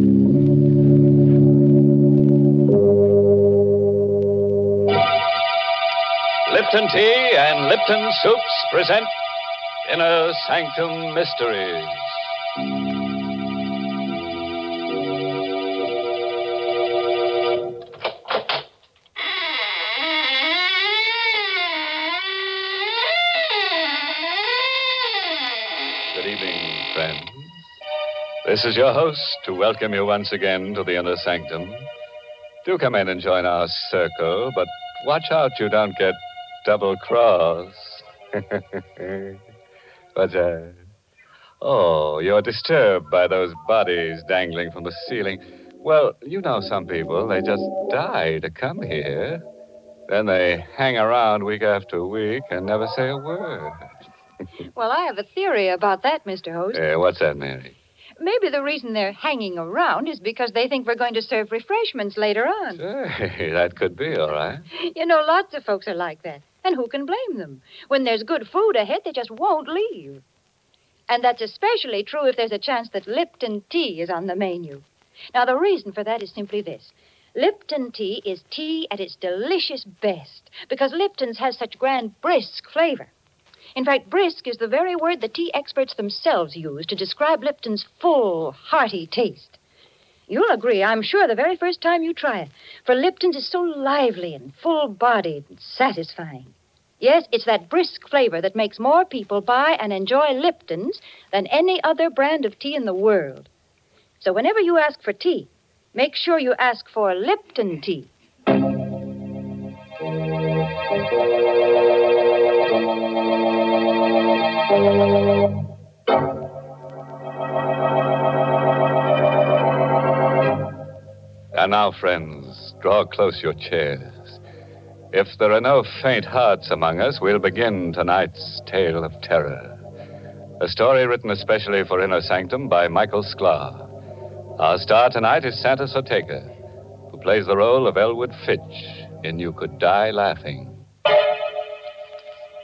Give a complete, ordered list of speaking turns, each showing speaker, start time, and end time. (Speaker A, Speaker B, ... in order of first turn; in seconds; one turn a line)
Speaker A: 6.5-9.1
Speaker A: 9.8-12.2
Speaker A: 26.1-27.6
Speaker A: 28.4-31.9
Speaker A: 32.6-39.4
Speaker A: 40.1-40.8
Speaker A: 41.6-49.4
Speaker A: 50.1-53.9
Speaker B: 54.8-56.8
Speaker A: 56.7-57.8
Speaker B: 58.2-62.8
Speaker A: 62.8-64.7
Speaker B: 64.7-70.2
Speaker B: 71.1-83.1
Speaker B: 83.8-89.6
Speaker B: 90.3-103.5
Speaker B: 104.2-108.1
Speaker A: 121.5-124.4
Speaker A: 125.1-129.8
Speaker A: 130.6-133.9
Speaker A: 134.6-136.5
Speaker A: 137.1-140.8